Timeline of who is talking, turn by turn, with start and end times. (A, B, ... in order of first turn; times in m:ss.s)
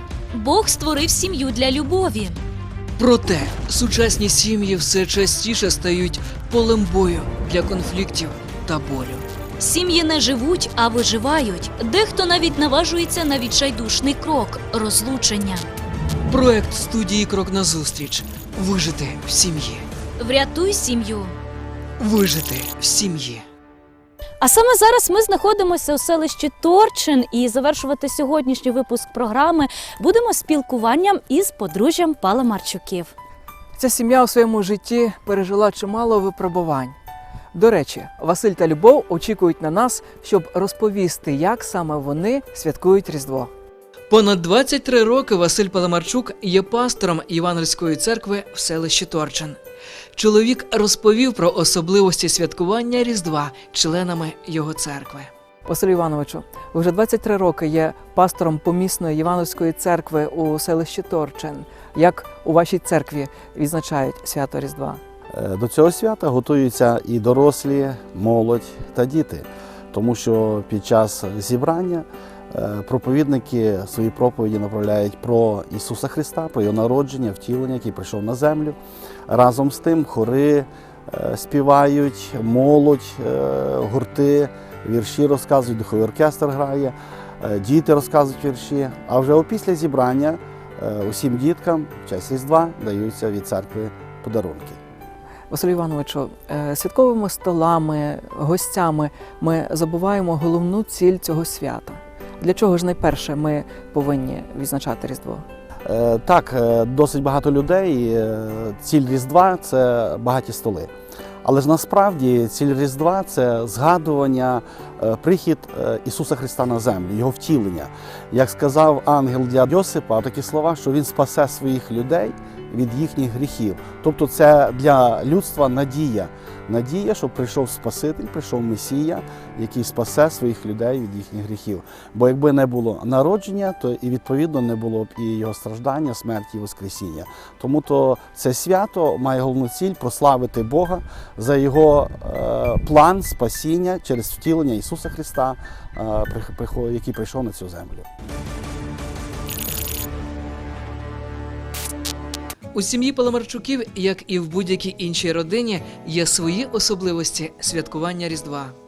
0:00.3-0:02.4 A
0:03.0-0:09.2 B
0:09.6-0:15.7 A
0:16.3-0:19.9 B
0:20.2-0:21.4 A
0:22.0-0:23.4 B
0:24.4-0:33.1 A
0:33.8-0:37.0 C
0:37.5-0:43.5 C
0:44.1-0:49.6 B
0:50.2-0:55.3 B
0:55.6-1:05.0 C
1:05.3-1:34.8 D
1:35.5-1:45.4 C
1:45.8-1:50.9 D
1:51.4-2:28.1 D
2:32.7-2:38.8 B